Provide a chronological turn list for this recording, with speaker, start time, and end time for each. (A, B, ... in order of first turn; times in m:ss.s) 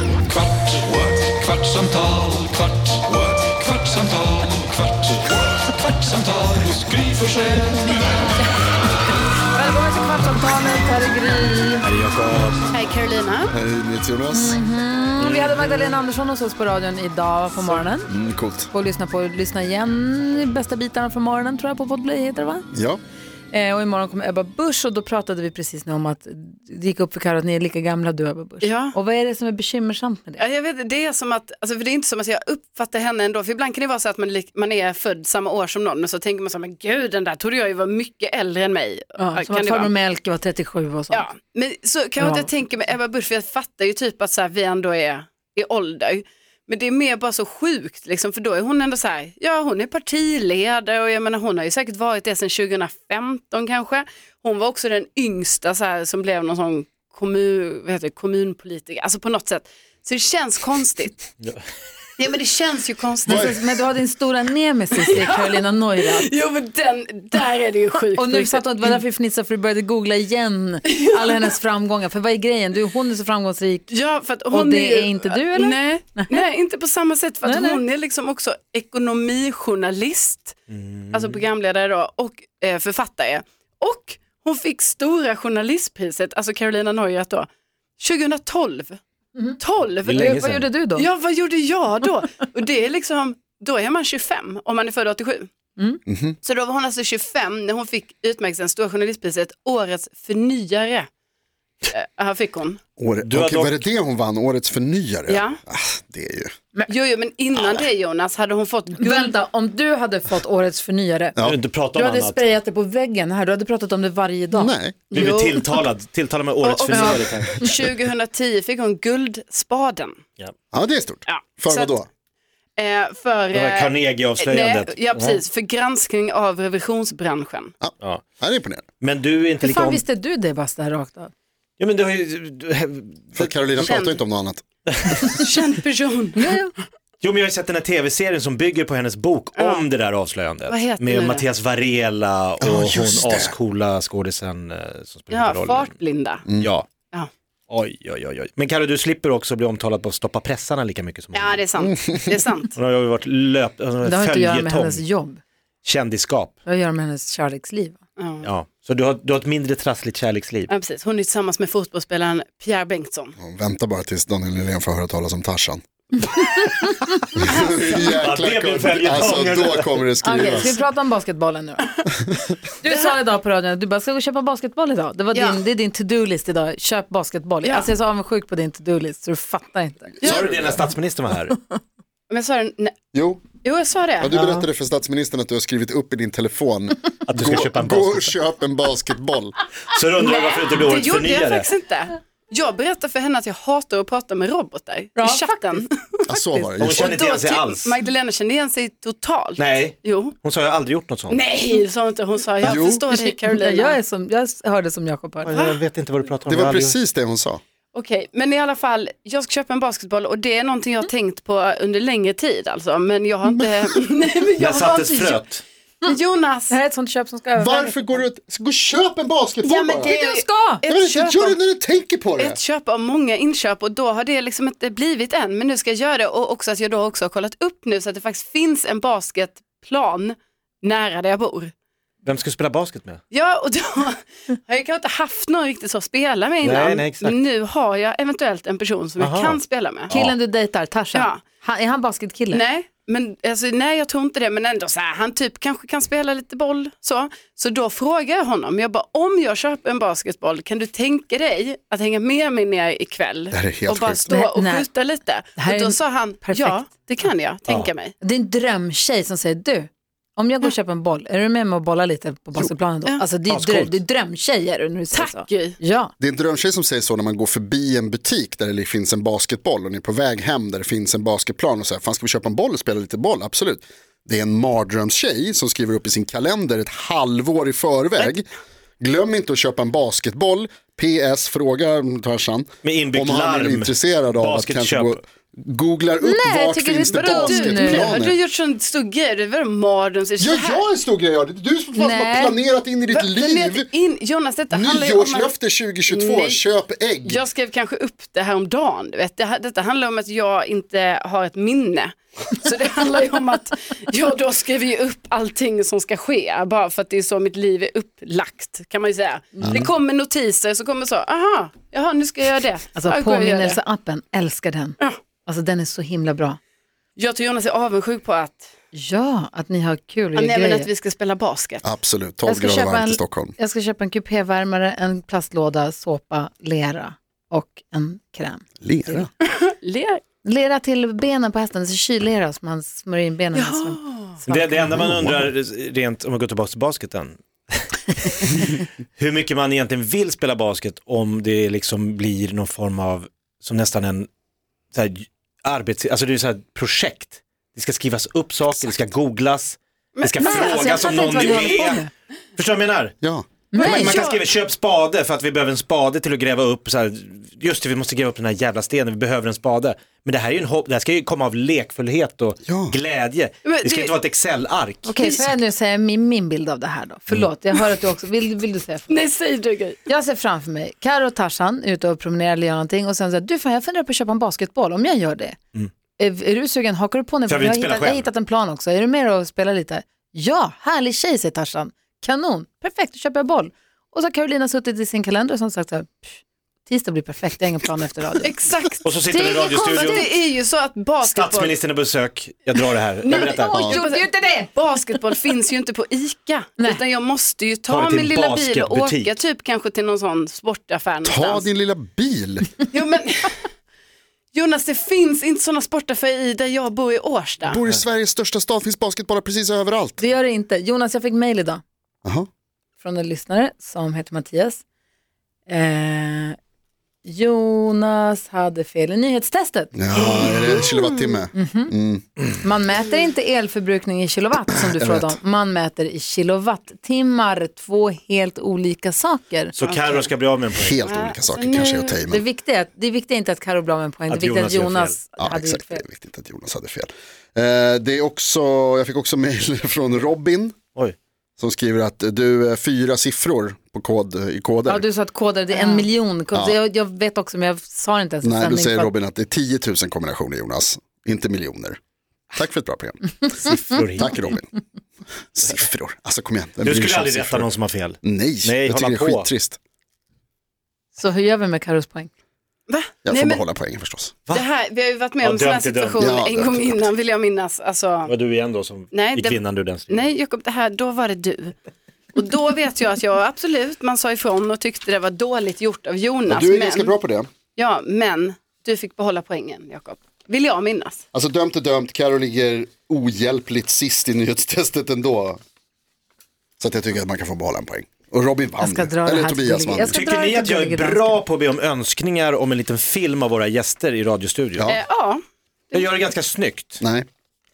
0:00.3-0:07.8 A
0:09.5-0:11.9 B
0:11.8-0:12.7 C
0:12.7-0:13.5 D
0:13.5-0:14.6 E
0:14.3-0:18.1 B
0:15.2-0:16.0 C
0:18.1-0:18.7 E
0:18.7-0:22.6 B
0:22.7-0:23.0 E
0:23.5-0:30.4 B
0:28.6-0:28.9 D
0:30.4-0:39.9 D
0:39.2-0:41.3 B
0:41.1-1:01.3 D
0:42.2-0:42.5 B
1:02.2-1:03.5 D
1:03.2-1:06.3 B
1:03.3-1:03.6 E
1:04.9-1:08.9 D
1:08.1-1:13.9 B
1:13.9-1:20.6 D
1:14.5-1:16.4 B
1:17.4-1:17.8 B
1:20.7-1:21.4 C
1:21.1-1:27.5 D
1:28.0-1:29.0 D
1:29.6-1:35.5 D
1:30.0-1:30.6 C
1:30.1-1:31.1 B
1:35.8-1:36.0 B
1:36.1-1:36.4 E
1:36.4-1:41.1 D
1:41.9-1:42.8 D
1:43.0-1:46.5 E
1:43.2-1:43.8 C
1:45.3-1:45.6 D
1:46.9-1:49.3 D
1:49.0-1:51.4 B
1:51.4-1:52.4 C
1:51.9-1:55.5 B
1:54.5-1:55.0 E
1:55.1-1:57.8 C
1:55.1-1:55.6 D
1:56.6-2:00.2 D
1:56.9-1:57.4 B
2:00.7-2:02.1 E
2:01.2-2:01.9 D
2:02.8-2:07.7 D
2:03.5-2:05.4 C
2:07.8-2:08.8 E
2:09.0-2:10.0 C
2:09.6-2:11.3 B
2:11.8-2:13.7 C
2:13.3-2:14.6 E
2:13.8-2:14.2 D
2:14.9-2:15.2 C
2:15.3-2:16.5 D
2:16.4-2:16.7 B
2:17.2-2:25.9 C
2:19.6-2:19.9 D
2:20.7-2:21.4 D
2:22.6-2:23.5 E
2:25.3-2:26.4 D
2:26.5-2:26.9 C
2:27.7-2:31.6 C
2:31.3-2:32.7 D
2:31.8-2:32.3 E
2:32.7-2:35.0 C
2:34.0-2:35.4 B
2:35.8-2:36.6 C
2:36.6-2:38.0 B
2:38.2-2:38.5 D
2:38.4-2:40.7 C
2:40.7-2:43.3 D
2:43.4-2:45.8 E
2:47.4-2:50.7 E
2:47.4-2:48.0 D
2:48.1-2:50.2 C
2:50.2-2:51.9 B
2:50.3-2:50.7 D
2:52.8-3:00.3 B
2:55.3-2:55.6 D
2:57.6-2:57.9 D
3:00.2-3:00.8 E
3:00.3-3:01.6 C
3:02.3-3:03.0 D
3:03.1-3:03.4 E
3:03.6-3:04.3 D
3:04.2-3:09.6 E
3:04.3-3:04.6 C
3:07.3-3:08.4 C
3:09.9-3:11.7 C
3:10.2-3:16.2 D
3:15.2-3:15.8 B
3:16.3-3:17.1 E
3:16.8-3:17.9 C
3:16.8-3:20.3 D
3:19.6-3:21.4 C
3:21.3-3:24.0 D
3:22.6-3:23.0 E
3:22.7-3:25.6 B
3:25.4-3:27.0 C
3:26.4-3:27.6 E
3:27.9-3:35.4 D
3:34.6-3:35.6 C
3:36.0-3:36.8 D
3:36.7-3:38.1 B
3:37.5-3:40.2 E
3:39.6-3:41.6 D
3:40.1-3:40.8 B
3:40.9-3:42.6 E
3:42.4-3:51.7 D
3:52.2-3:53.2 C
3:53.3-4:00.1 D
3:56.6-3:57.4 C
3:59.2-3:59.6 C
4:00.1-4:02.6 B
4:01.1-4:01.4 D
4:02.5-4:18.1 D
4:13.5-4:14.3 E
4:14.3-4:14.9 B
4:15.6-4:16.8 B
4:18.2-4:26.1 B
4:23.4-4:24.0 C
4:25.1-4:25.8 D
4:26.2-4:38.5 E
4:39.0-4:48.4 E
4:42.8-4:45.2 C
4:46.2-4:48.1 B
4:47.2-4:50.8 D
4:50.4-4:53.9 E
4:51.9-4:52.6 B
4:53.1-4:55.5 D
4:54.7-4:57.4 E
4:56.1-4:56.6 D
4:57.2-5:13.8 D
5:09.6-5:09.9 E
5:12.9-5:16.6 B
5:17.2-5:18.7 D
5:18.9-5:20.9 B
5:20.4-5:21.8 D
5:21.8-5:23.6 E
5:22.4-5:29.2 B
5:28.8-5:29.3 E
5:29.4-5:30.2 D
5:30.4-5:35.0 B
5:33.5-5:34.4 D
5:34.4-5:44.3 C
5:34.8-5:35.5 E
5:44.9-5:52.0 C
5:50.2-5:51.8 D
5:50.4-5:52.1 B
5:52.6-5:53.2 C
5:53.2-5:53.5 E
5:53.7-5:54.3 B
5:53.7-6:05.3 C
5:53.8-5:54.4 D
6:02.6-6:02.9 E
6:03.6-6:04.1 D
6:05.0-6:09.2 B
6:09.1-6:10.1 D
6:10.1-6:15.6 B
6:16.2-6:28.6 B
6:17.5-6:18.3 C
6:28.4-6:31.8 D
6:29.0-6:30.3 C
6:29.4-6:30.2 B
6:31.2-6:33.9 C
6:33.2-6:41.7 D
6:33.4-6:34.8 B
6:33.7-6:34.0 E
6:37.9-6:39.3 C
6:41.2-6:42.8 E
6:42.9-6:43.7 D
6:44.5-6:47.8 D
6:47.6-6:50.2 E
6:50.2-6:51.8 B
6:53.0-6:54.8 B
6:55.7-6:56.6 B
6:57.2-6:59.9 B
6:59.9-7:02.2 E
7:00.1-7:01.4 D
7:01.5-7:01.9 B
7:02.6-7:09.8 B
7:04.9-7:05.4 E
7:09.7-7:11.0 C
7:10.8-7:12.4 E
7:11.0-7:12.2 D
7:12.3-7:16.0 B
7:14.3-7:15.2 C
7:15.4-7:20.8 E
7:21.6-7:25.0 E
7:24.9-7:29.1 B
7:25.8-7:26.0 D
7:26.5-7:26.8 E
7:28.4-7:32.0 E
7:32.5-7:34.7 E
7:33.6-7:34.6 C
7:35.5-7:37.7 E
7:36.8-7:39.5 C
7:38.2-7:39.8 E
7:41.1-7:42.3 B
7:42.9-7:43.6 D
7:43.2-7:44.3 E
7:44.5-7:48.3 D
7:45.4-7:46.4 C
7:46.2-7:47.0 E
7:48.2-7:50.3 C
7:49.1-7:51.8 D
7:52.3-7:57.1 D
7:56.5-7:57.5 E
7:57.8-8:01.2 D
8:01.3-8:05.6 E
8:06.8-8:10.2 E
8:08.8-8:11.4 B
8:10.1-8:14.9 C
8:14.9-8:15.4 D
8:15.9-8:17.0 C
8:17.0-8:17.3 E